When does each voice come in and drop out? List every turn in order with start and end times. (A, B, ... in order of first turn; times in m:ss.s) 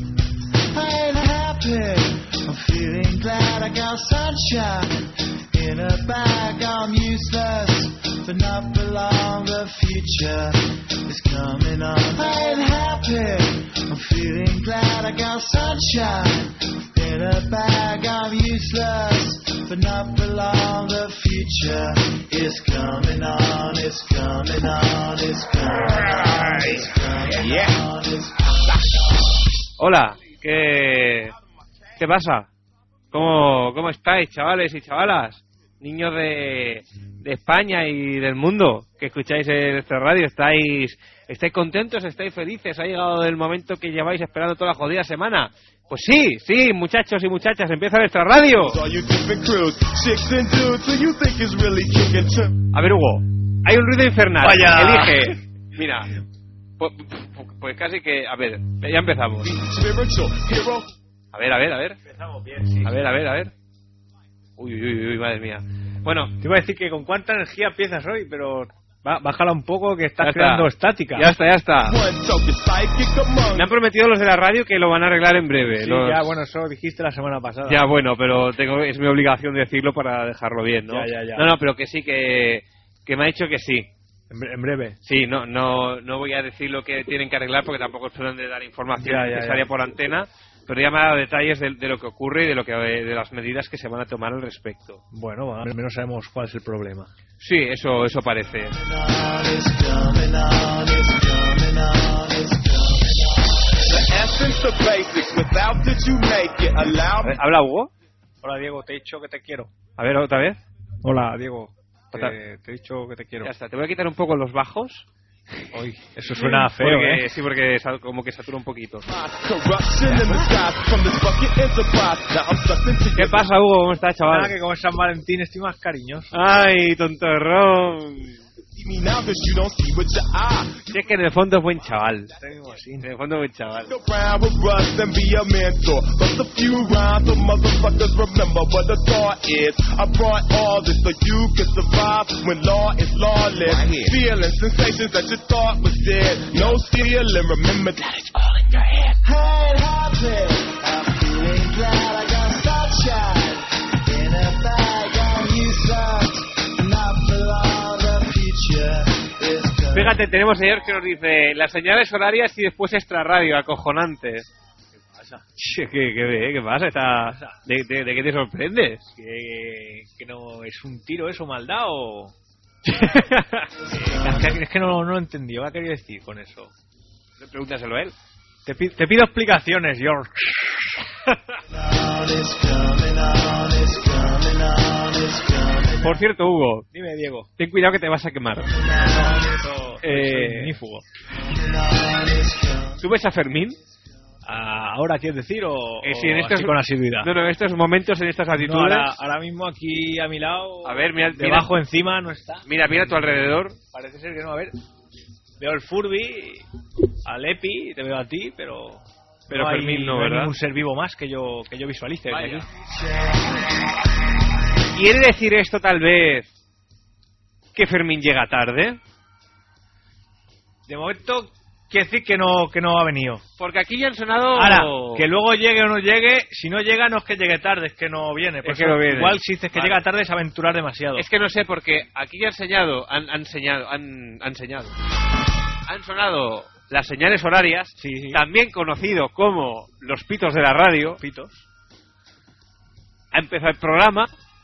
0:00.7-0:28.9 A
0:29.8-0:31.3 B
0:32.0-0:32.5 B
0:33.1-0:48.8 B
0:48.6-0:52.5 C
0:52.7-0:56.1 B
0:54.4-0:55.3 D
0:56.8-0:59.5 B
0:59.4-1:00.9 C
1:01.3-1:02.0 B
1:02.0-1:03.0 D
1:02.8-1:03.5 B
1:04.6-1:06.3 B
1:06.4-1:11.3 D
1:10.2-1:12.0 B
1:11.8-1:13.8 C
1:13.5-1:16.3 B
1:15.7-1:17.8 D
1:17.7-1:23.9 B
1:20.9-1:21.5 D
1:24.3-1:25.0 D
1:25.0-1:35.0 B
1:29.0-1:29.7 D
1:35.1-1:37.1 D
1:37.4-1:38.8 B
1:38.7-1:43.3 A
1:43.9-1:47.4 C
1:47.2-1:47.9 B
1:48.4-1:49.7 D
1:50.0-1:50.6 B
1:51.0-1:53.5 D
1:53.4-1:55.0 B
1:55.7-1:57.3 D
1:56.4-1:59.0 B
1:59.1-2:03.5 C
2:03.2-2:04.6 B
2:04.2-2:06.3 D
2:06.3-2:08.4 B
2:08.8-2:11.0 C
2:10.9-2:12.3 B
2:12.4-2:13.1 D
2:13.0-2:14.0 B
2:13.8-2:29.1 C
2:29.2-2:40.2 A
2:39.9-2:44.5 B
2:45.0-2:45.4 D
2:45.6-2:49.1 B
2:47.2-2:47.6 D
2:49.2-2:52.3 D
2:52.9-2:53.7 B
2:53.9-2:56.7 D
2:57.4-2:58.1 B
2:58.6-3:01.0 D
3:01.7-3:06.2 A
3:06.0-3:06.9 B
3:06.9-3:07.5 D
3:07.6-3:08.7 B
3:08.7-3:09.7 A
3:09.5-3:11.0 D
3:10.0-3:10.8 B
3:11.5-3:13.0 A
3:13.0-3:13.8 B
3:14.4-3:17.3 D
3:16.0-3:19.2 B
3:18.5-3:22.7 D
3:20.8-3:21.7 B
3:22.7-3:23.8 B
3:23.9-3:24.8 D
3:25.6-3:26.6 D
3:27.2-3:32.7 D
3:29.5-3:30.6 B
3:32.3-3:32.7 B
3:34.9-3:36.5 B
3:37.8-3:39.0 B
3:40.9-3:43.4 D
3:43.6-3:45.3 B
3:44.6-3:51.3 D
3:48.6-3:50.0 B
3:51.2-3:54.9 B
3:55.9-4:01.2 B
3:58.0-3:58.4 D
4:01.0-4:01.6 D
4:03.3-4:04.3 B